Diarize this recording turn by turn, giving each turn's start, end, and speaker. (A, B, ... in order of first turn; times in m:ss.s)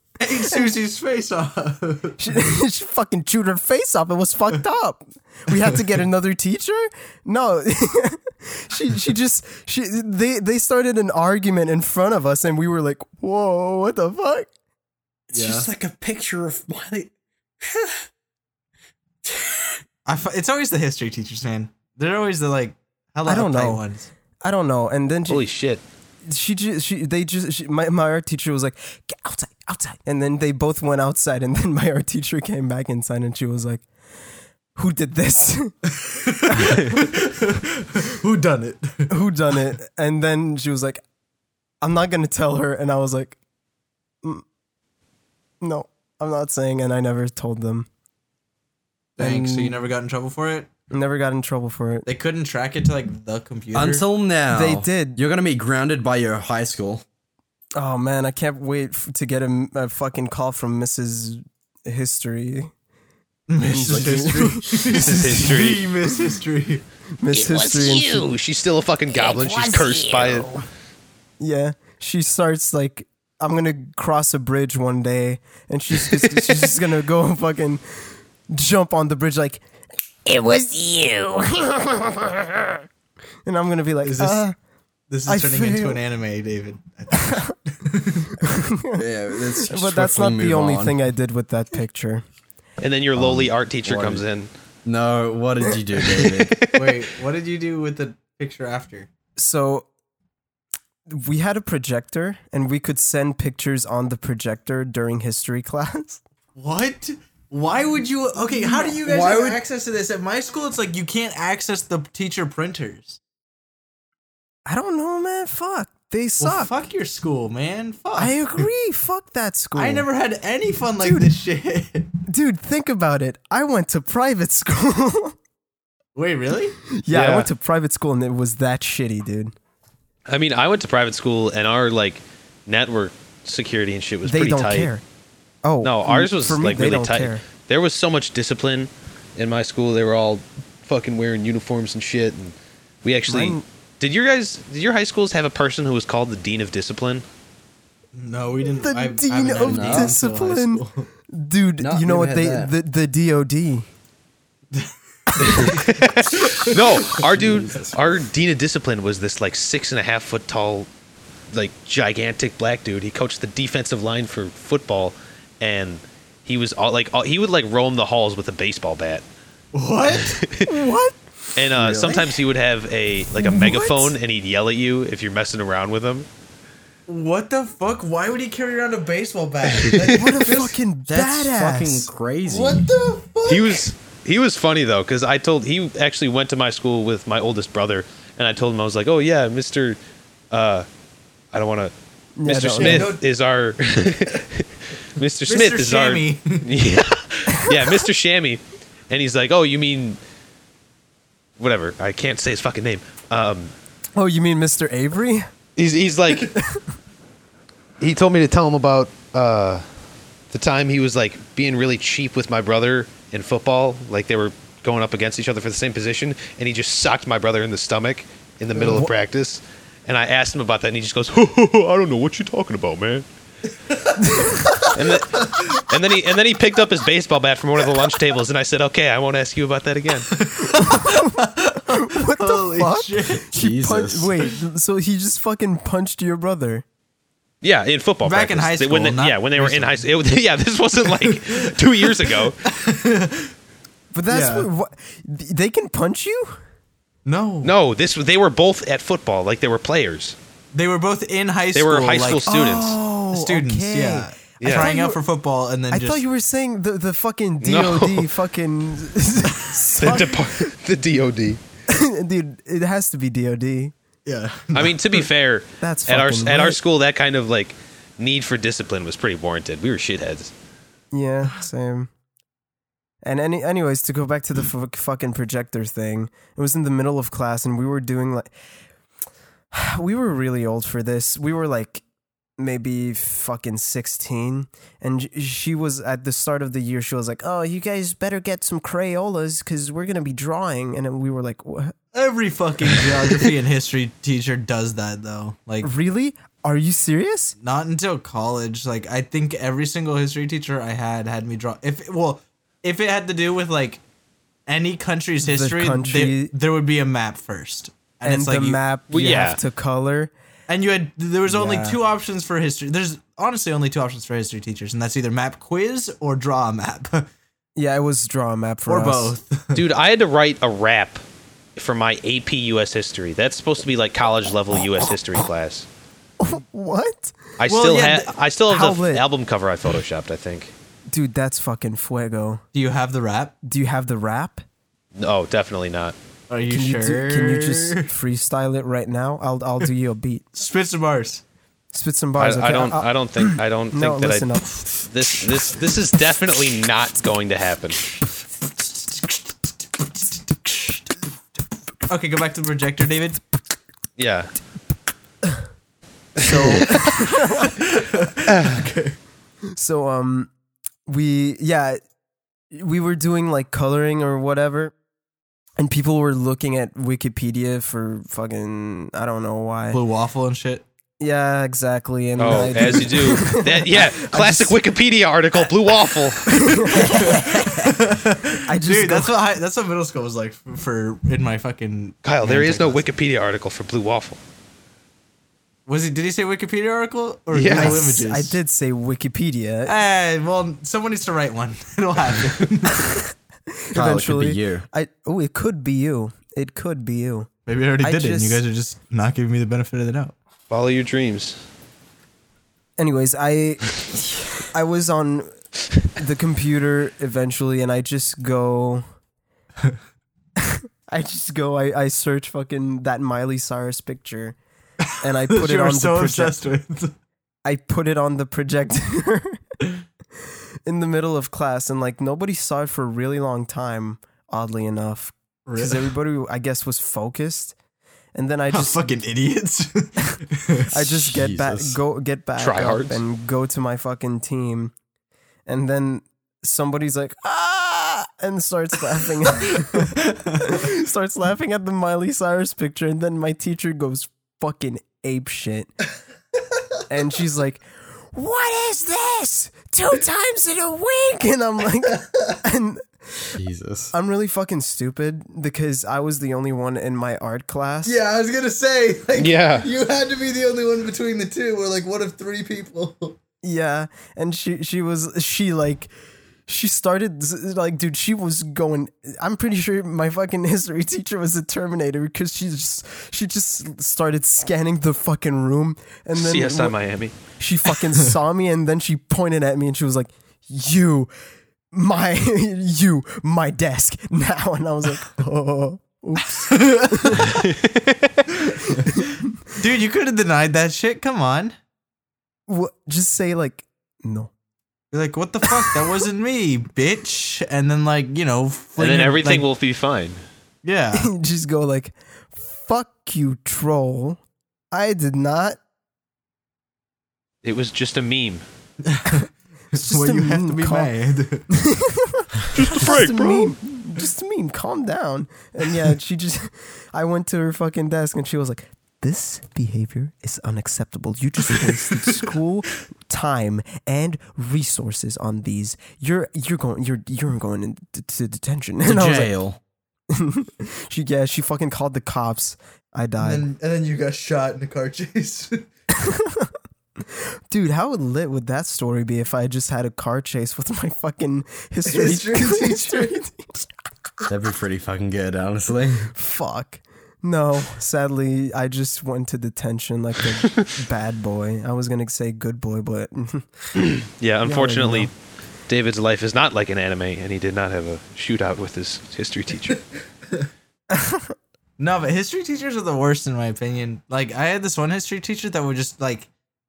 0:00.2-0:02.2 A
0:02.2-0:14.5 B
0:15.3-0:18.0 C
0:15.3-0:15.7 A
0:19.2-0:19.8 C
0:20.0-0:24.1 A
0:23.2-0:23.8 B
0:24.4-0:25.4 B
0:25.3-0:25.8 D
0:26.2-0:33.8 B
0:34.8-0:35.7 B
0:35.9-0:39.1 A
0:36.6-0:37.0 B
0:39.1-0:41.0 B
0:41.8-0:43.4 B
0:45.6-0:47.9 B
0:49.2-0:50.7 A
0:49.2-0:49.8 B
0:50.9-0:52.1 B
0:52.0-0:54.0 A
0:53.7-0:57.0 C
0:54.5-0:55.2 B
0:57.8-1:02.7 B
1:03.5-1:06.8 A
1:03.7-1:05.5 B
1:04.8-1:05.9 D
1:07.2-1:08.2 B
1:07.3-1:10.6 D
1:11.4-1:19.6 B
1:20.2-1:22.8 B
1:23.4-1:24.5 B
1:24.0-1:24.4 A
1:25.1-1:28.4 A
1:25.3-1:26.0 B
1:28.4-1:32.2 B
1:29.0-1:31.0 C
1:32.8-1:34.5 D
1:33.2-1:34.2 C
1:34.8-1:36.6 C
1:36.1-1:37.0 D
1:36.7-1:39.1 A
1:39.4-1:39.9 B
1:41.1-1:46.2 B
1:46.6-1:53.2 A
1:48.5-1:49.6 B
1:54.6-1:56.7 B
1:56.4-1:58.6 A
1:58.1-2:00.1 B
1:59.7-2:02.1 A
2:01.0-2:01.3 B
2:02.3-2:05.3 B
2:06.1-2:06.8 A
2:06.9-2:09.5 B
2:07.1-2:07.5 D
2:10.3-2:14.9 D
2:14.2-2:15.0 B
2:15.6-2:17.4 B
2:15.8-2:27.2 D
2:23.3-2:23.6 B
2:28.1-2:31.1 A
2:28.8-2:33.9 B
2:29.6-2:30.2 C
2:31.8-2:32.7 C
2:34.7-2:37.2 A
2:35.4-2:40.9 D
2:37.1-2:38.0 C
2:41.5-2:49.2 D
2:49.7-2:50.4 A
2:50.2-2:50.7 D
2:50.6-2:51.2 B
2:51.6-2:56.3 D
2:51.7-2:52.2 C
2:53.4-2:54.1 B
2:57.1-3:00.7 A
3:00.1-3:02.1 B
3:01.1-3:02.9 C
3:02.5-3:03.8 A
3:03.5-3:10.0 D
3:10.5-3:10.8 D
3:11.5-3:11.9 D
3:12.4-3:13.1 B
3:12.4-3:14.6 D
3:12.8-3:13.2 A
3:15.2-3:20.2 D
3:15.4-3:16.6 A
3:21.6-3:23.7 D
3:24.2-3:25.5 B
3:25.8-3:26.5 D
3:28.0-3:29.8 D
3:30.5-3:43.2 D
3:38.8-3:39.1 A
3:43.9-3:45.7 A
3:44.2-3:44.9 B
3:44.8-3:50.4 D
3:50.4-3:53.4 A
3:50.8-3:56.8 B
3:53.4-3:54.3 C
3:57.6-4:02.6 D
3:58.2-4:00.1 A
4:01.0-4:03.5 A
4:04.1-4:06.6 B
4:04.3-4:04.7 A
4:07.2-4:07.7 A
4:07.6-4:10.4 D
4:10.7-4:16.2 A
4:11.7-4:13.0 D
4:12.4-4:15.2 B
4:14.6-4:14.9 D
4:15.9-4:20.7 B
4:17.6-4:18.3 D
4:20.0-4:21.6 D
4:21.9-4:23.9 B
4:24.2-4:25.3 A
4:24.7-4:30.5 D
4:25.8-4:26.8 B
4:31.1-4:32.1 B
4:33.2-4:38.5 B
4:39.7-4:42.0 B
4:42.6-4:51.9 B
4:52.1-4:55.9 A
4:55.8-4:57.5 B
4:57.6-5:04.0 A
5:04.7-5:09.5 A
5:05.4-5:06.5 B
5:08.2-5:10.3 B
5:09.1-5:09.6 D
5:10.7-5:17.3 A
5:11.5-5:12.0 B
5:17.8-5:19.3 B
5:18.9-5:19.8 A
5:19.7-5:21.2 D
5:21.8-5:25.8 D
5:26.4-5:27.3 B
5:27.6-5:30.7 D
5:27.7-5:28.3 A
5:28.7-5:29.2 B
5:31.1-5:32.6 B
5:32.7-5:33.5 A
5:33.6-5:34.6 B
5:35.2-5:36.1 D
5:36.5-5:38.1 A
5:36.7-5:40.4 B
5:40.5-5:41.4 A
5:41.9-5:44.8 B
5:42.4-5:44.5 D
5:45.0-5:48.1 D
5:52.1-5:53.4 A
5:54.2-5:54.5 D
5:56.4-5:59.2 A
5:56.5-5:57.6 B
5:59.7-6:00.5 B
6:01.0-6:02.0 B
6:02.7-6:04.9 B
6:05.8-6:10.0 B
6:09.9-6:10.8 A
6:11.2-6:14.8 B
6:12.4-6:17.2 D
6:16.5-6:18.0 B
6:16.9-6:23.0 A
6:18.6-6:19.3 B
6:22.2-6:24.4 D
6:25.8-6:28.6 A
6:27.5-6:28.1 D
6:27.7-6:30.0 B
6:29.8-6:33.2 A
6:33.9-6:37.5 B
6:33.9-6:34.8 C
6:37.6-6:40.3 A
6:38.0-6:38.6 B
6:40.7-6:41.6 D
6:43.0-6:44.0 B
6:44.6-6:45.5 B
6:46.1-6:49.0 B
6:50.6-6:54.6 B
6:55.0-6:57.1 A
6:55.2-6:56.6 B
6:57.6-6:59.6 B
7:00.8-7:07.7 B
7:05.6-7:06.1 A
7:08.3-7:09.0 B
7:08.7-7:10.9 A
7:10.9-7:14.9 B
7:11.0-7:12.0 C
7:12.6-7:13.2 D
7:15.7-7:25.9 B
7:20.0-7:20.7 A
7:27.1-7:33.0 B
7:33.6-7:34.1 C
7:34.1-7:38.2 B
7:38.0-7:43.4 A
7:39.4-7:39.9 D
7:43.6-7:46.1 B
7:46.7-7:56.9 B
7:56.3-7:57.3 D
7:57.6-8:01.3 B
8:01.9-8:07.6 B
8:06.7-8:07.5 A
8:07.6-8:08.4 D
8:08.8-8:09.4 B
8:09.8-8:11.7 A
8:12.7-8:14.5 B
8:15.1-8:19.6 A
8:19.0-8:20.4 D
8:20.8-8:21.3 A
8:21.1-8:24.4 B
8:24.9-8:25.8 B
8:27.6-8:28.6 D
8:29.1-8:31.7 A
8:29.9-8:31.1 B
8:31.7-8:49.5 B
8:32.7-8:33.7 D
8:49.0-8:49.8 C
8:50.3-8:53.6 B
8:53.4-8:55.8 A
8:56.2-8:56.7 B
8:57.7-9:03.8 B
9:02.0-9:03.4 A
9:04.5-9:06.3 C
9:06.3-9:13.7 B
9:14.0-9:15.3 D
9:14.6-9:15.3 B
9:15.9-9:20.0 D
9:21.1-9:21.5 B
9:22.0-9:26.5 A